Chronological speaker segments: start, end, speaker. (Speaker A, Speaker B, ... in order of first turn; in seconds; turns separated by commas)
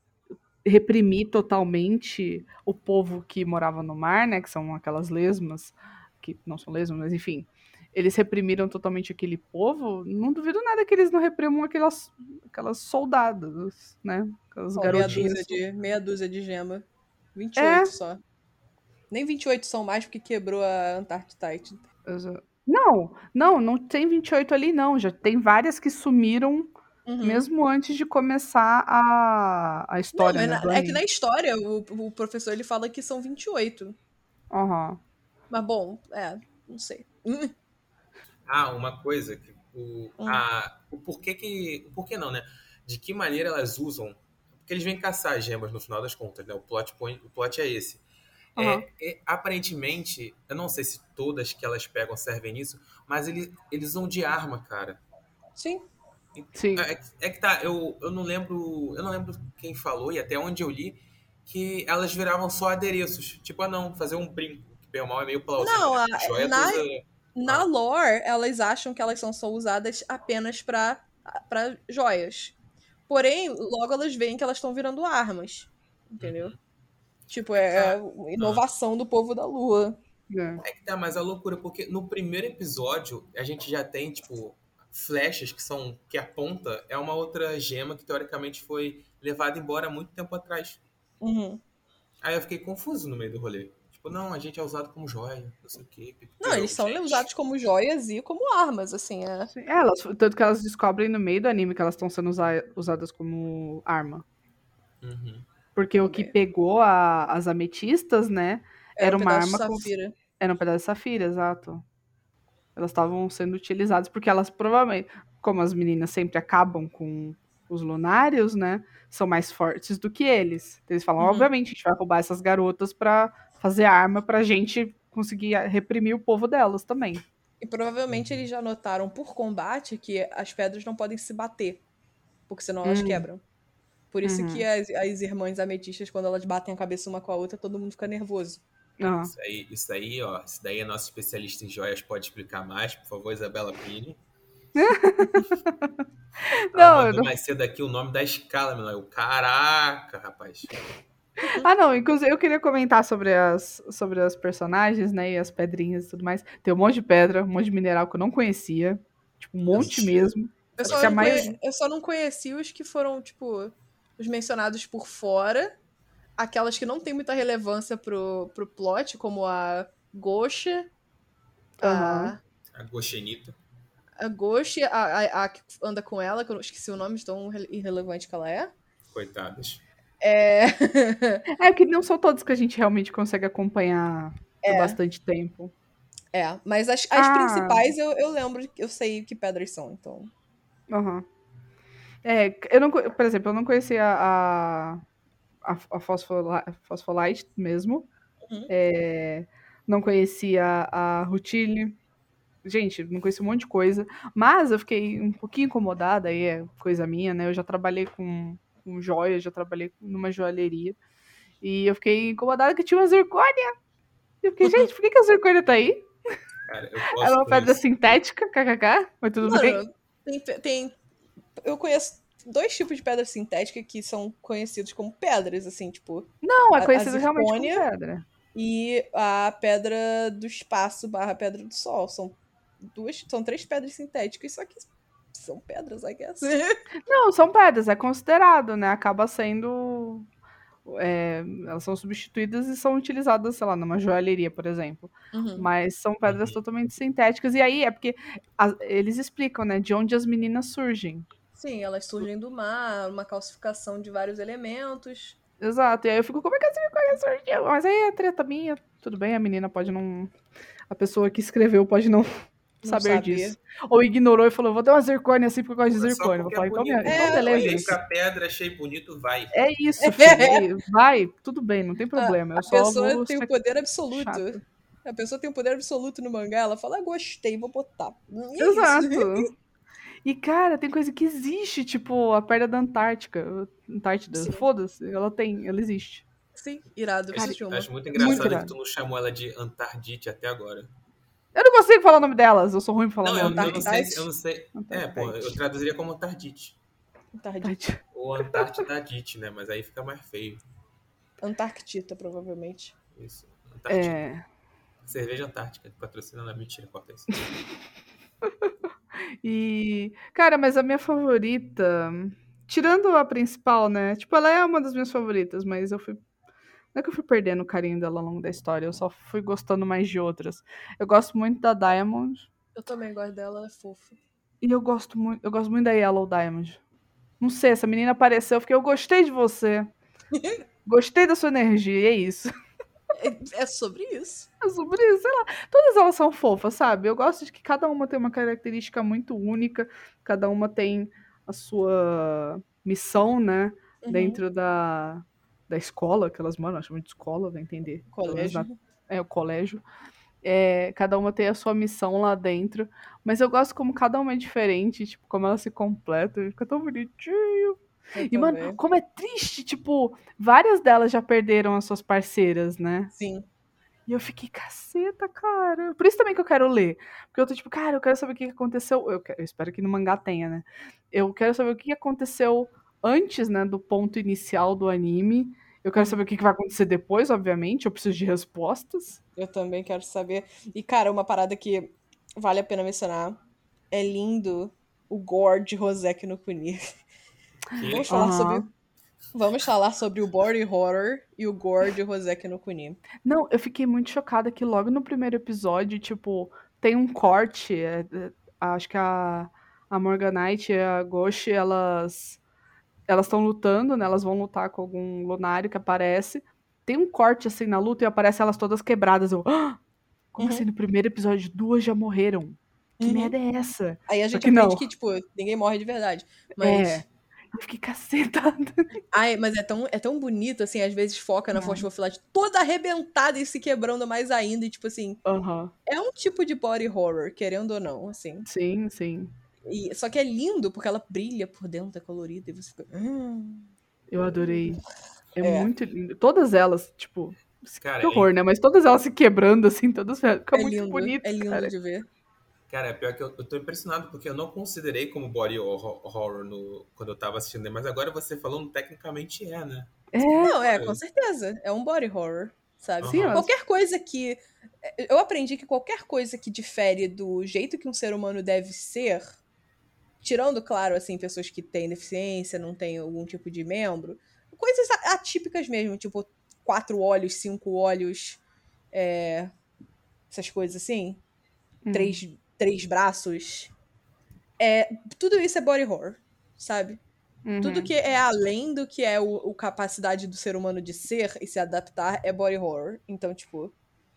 Speaker A: 0.6-15.6, Speaker B: 14.8-18.2, Speaker C: 14.9-15.2, Speaker A: 17.6-17.9, Speaker B: 19.1-21.8, Speaker A: 22.1-31.0, Speaker B: 27.1-27.4, Speaker B: 30.1-34.0, Speaker A: 34.5-35.0, Speaker B: 35.5-37.5, Speaker C: 38.5-48.0, Speaker C: 48.5-55.0, Speaker A: 48.6-48.8, Speaker B: 55.5-55.9, Speaker C: 56.3-67.7, Speaker A: 56.5-56.9, Speaker B: 65.6-66.8, Speaker B: 67.3-72.5, Speaker B: 73.1-76.5, Speaker C: 76.2-76.5, Speaker B: 77.3-80.0, Speaker C: 77.7-78.6, Speaker A: 80.3-80.6, Speaker C: 80.6-90.8, Speaker B: 91.2-91.6, Speaker C: 92.2-97.3, Speaker B: 96.4-99.5, Speaker A: 99.5-104.2, Speaker C: 105.0-105.5, Speaker A: 105.7-111.8, Speaker B: 106.0-106.3, Speaker B: 109.0-110.1, Speaker A: 112.8-127.2, Speaker B: 121.2-121.5, Speaker B: 127.6-131.8, Speaker C: 128.1-128.4, Speaker B: 132.5-133.4, Speaker A: 132.8-133.2, Speaker B: 134.1-138.6, Speaker A: 134.2-134.6, Speaker A: 139.0-139.3, Speaker C: 139.3-144.2, Speaker A: 144.7-145.9, Speaker A: 146.5-147.3, Speaker C: 146.7-150.8, Speaker A: 151.6-161.5, Speaker C: 159.7-161.4, Speaker B: 160.8-165.8, Speaker B: 166.4-170.9, Speaker A: 171.8-172.3, Speaker B: 171.8-172.4, Speaker C: 172.7-173.6, Speaker B: 174.2-178.7, Speaker C: 179.1-179.8, Speaker B: 180.2-181.4, Speaker A: 181.6-185.7, Speaker B: 184.6-185.0, Speaker B: 186.3-190.3, Speaker A: 187.1-187.8, Speaker A: 190.9-191.2, Speaker A: 192.2-195.0, Speaker A: 195.6-198.1, Speaker A: 198.7-202.0, Speaker A: 202.6-211.0, Speaker A: 211.6-213.8, Speaker A: 214.4-216.1, Speaker C: 216.7-217.8, Speaker A: 217.1-219.8, Speaker B: 219.4-221.0, Speaker B: 221.6-227.8, Speaker A: 226.4-228.2, Speaker B: 228.5-236.8, Speaker A: 237.1-240.3, Speaker A: 240.8-251.3, Speaker B: 245.3-245.7, Speaker C: 246.2-246.6, Speaker B: 251.6-255.4, Speaker A: 255.6-260.3, Speaker A: 260.9-268.0, Speaker B: 262.8-263.6, Speaker C: 265.9-269.5, Speaker B: 267.0-267.7, Speaker A: 269.5-273.5, Speaker B: 270.0-270.7, Speaker B: 272.1-279.5, Speaker A: 274.1-274.6, Speaker A: 278.6-279.5, Speaker A: 280.2-286.3, Speaker B: 284.3-284.6, Speaker B: 286.6-288.6, Speaker C: 287.3-290.9, Speaker A: 288.1-288.7, Speaker A: 291.5-293.9, Speaker C: 293.2-296.8, Speaker B: 293.4-294.3, Speaker A: 294.7-295.6, Speaker B: 297.3-297.8, Speaker A: 297.6-298.7, Speaker C: 298.1-300.6, Speaker B: 301.4-302.9, Speaker C: 303.1-304.2, Speaker A: 303.9-304.4, Speaker C: 305.0-307.5, Speaker A: 309.4-316.2, Speaker A: 316.9-322.5, Speaker B: 322.7-324.2, Speaker A: 324.6-326.8, Speaker A: 327.4-329.9, Speaker B: 330.3-330.6, Speaker A: 330.9-332.5, Speaker B: 333.1-334.5, Speaker A: 334.6-349.8, Speaker B: 344.0-344.4, Speaker B: 348.1-348.8, Speaker A: 350.4-363.1, Speaker B: 358.1-358.8, Speaker B: 363.1-363.4, Speaker A: 364.1-379.2, Speaker B: 379.4-383.4, Speaker B: 383.9-386.9, Speaker C: 387.7-388.2, Speaker B: 387.9-388.7, Speaker A: 388.1-388.7, Speaker B: 389.3-393.0, Speaker A: 393.2-402.4, Speaker A: 403.1-409.8, Speaker A: 410.3-414.9, Speaker B: 410.4-410.6, Speaker B: 413.0-413.3, Speaker B: 414.1-417.0, Speaker A: 416.6-418.9, Speaker B: 419.1-425.2, Speaker A: 421.6-421.8, Speaker A: 425.2-425.7, Speaker B: 425.9-428.4, Speaker A: 428.4-429.3, Speaker B: 429.6-433.7, Speaker A: 434.1-434.8, Speaker B: 434.2-434.8, Speaker A: 435.4-441.7, Speaker B: 435.4-435.7, Speaker C: 437.8-438.3, Speaker B: 440.5-442.1, Speaker C: 442.7-449.9, Speaker A: 450.1-450.6, Speaker B: 450.4-459.4, Speaker C: 450.7-451.0, Speaker C: 453.0-453.4, Speaker A: 453.1-453.5, Speaker B: 460.2-468.4, Speaker B: 468.9-469.5, Speaker B: 470.3-471.2, Speaker A: 471.8-472.2, Speaker B: 471.9-473.7, Speaker B: 474.6-477.0, Speaker A: 477.4-477.9, Speaker B: 477.6-483.7